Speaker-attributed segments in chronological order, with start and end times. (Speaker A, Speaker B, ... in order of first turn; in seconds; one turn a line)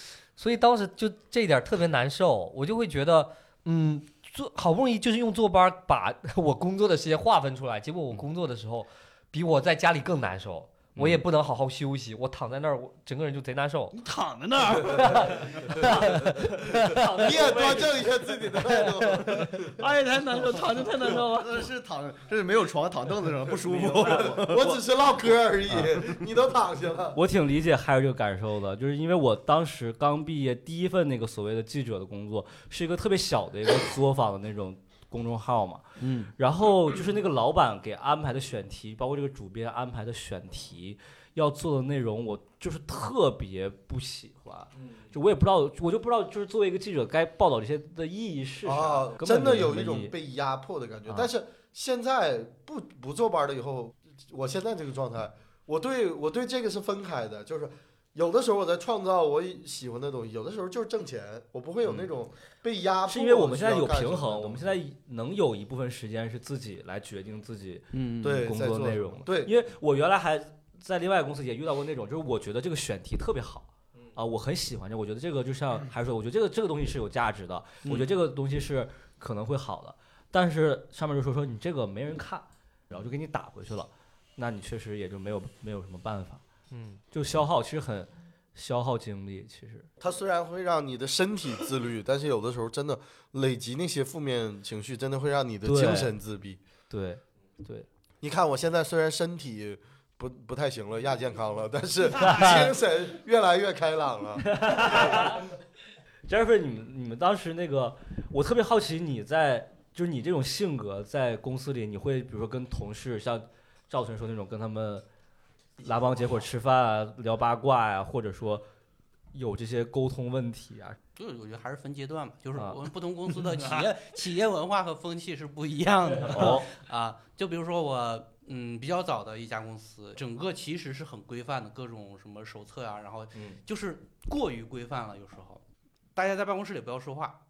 Speaker A: 0.4-13.9
Speaker B: 10.9-11.2
Speaker C: 13.9-15.7
Speaker A: 14.9-17.2
Speaker B: 15.7-16.2
Speaker B: 16.8-18.1
Speaker D: 17.1-19.8
Speaker A: 18.8-19.3
Speaker C: 19.6-21.7
Speaker E: 21.2-24.8
Speaker B: 23.6-24.8
Speaker D: 24.3-27.2
Speaker B: 27.1-50.1
Speaker C: 36.0-36.3
Speaker D: 48.6-64.8
Speaker B: 63.1-86.4
Speaker C: 67.9-68.4
Speaker D: 68.2-69.5
Speaker C: 77.8-78.1
Speaker A: 86.7-87.0
Speaker B: 87.1-89.9
Speaker D: 90.0-96.6
Speaker B: 95.6-96.1
Speaker B: 96.9-97.9
Speaker D: 98.2-105.1
Speaker B: 104.5-105.5
Speaker B: 106.3-115.0
Speaker B: 115.8-118.6
Speaker B: 119.3-121.0
Speaker F: 121.2-135.6
Speaker C: 123.5-123.9
Speaker B: 126.3-126.7
Speaker F: 136.1-137.4